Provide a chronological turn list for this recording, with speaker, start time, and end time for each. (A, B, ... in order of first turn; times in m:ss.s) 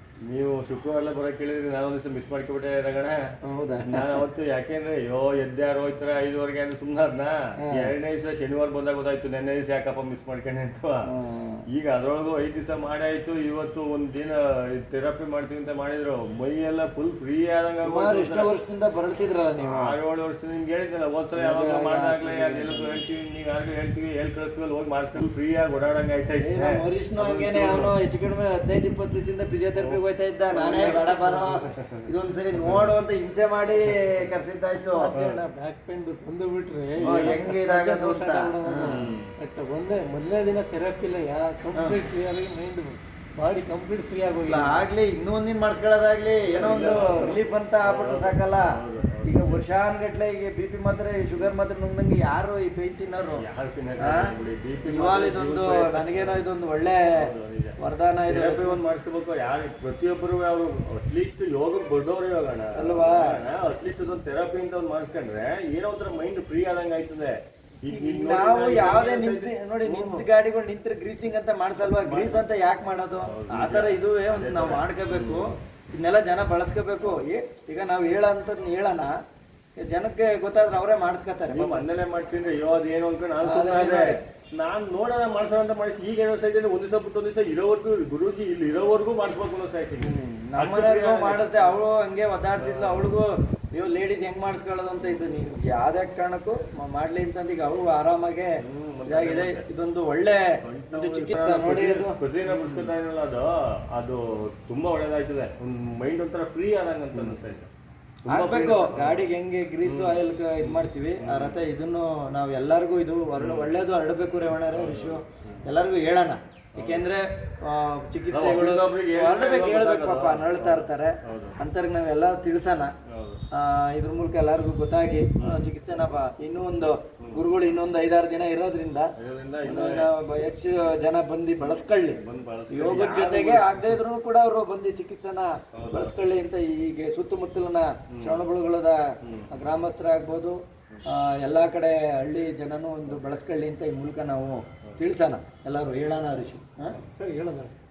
0:00.2-0:03.2 A
0:03.4-0:04.2 B
0:03.8-0:11.0 A
0:07.6-0:07.9 B
0:11.1-0:11.6 B
0:11.7-0:18.5 A
0:17.8-0:19.9 B
0:19.6-0:27.9 A
0:21.4-0:23.0 B
0:26.4-0:35.1 B
0:29.8-0:30.0 A
0:30.5-0:32.1 A
0:31.1-0:31.5 C
0:32.6-0:32.9 A
0:34.8-0:44.8 C
0:35.0-0:35.4 A
0:37.0-0:37.4 A
0:37.0-0:39.0 B
0:38.8-0:39.3 A
0:44.5-0:53.4 B
0:46.5-0:49.6 A
0:53.4-0:56.4 A
0:54.0-0:54.3 B
0:54.8-0:57.2 B
0:57.1-0:57.8 A
0:57.8-0:58.8 B
0:58.3-1:10.2 A
1:02.8-1:03.4 B
1:07.9-1:19.1 B
1:11.9-1:12.4 A
1:13.3-1:15.5 A
1:19.8-1:21.8 B
1:21.5-1:31.7 A
1:23.4-1:24.2 B
1:30.0-1:38.5 B
1:32.6-1:33.2 A
1:38.6-1:39.6 A
1:39.1-1:42.9 B
1:40.6-1:47.7 A
1:48.2-1:49.3 A
1:48.3-2:02.9 B
1:49.8-1:51.6 A
1:53.4-1:53.7 A
1:54.7-1:55.6 A
1:56.8-1:57.0 A
1:58.3-2:01.6 A
2:03.1-2:03.4 A
2:03.5-2:09.1 B
2:07.2-2:07.4 A
2:09.2-2:10.1 A
2:09.6-2:12.2 B
2:11.6-2:14.0 A
2:12.7-2:27.0 B
2:15.7-2:16.1 A
2:18.1-2:18.4 A
2:19.2-2:19.5 A
2:27.0-2:27.7 C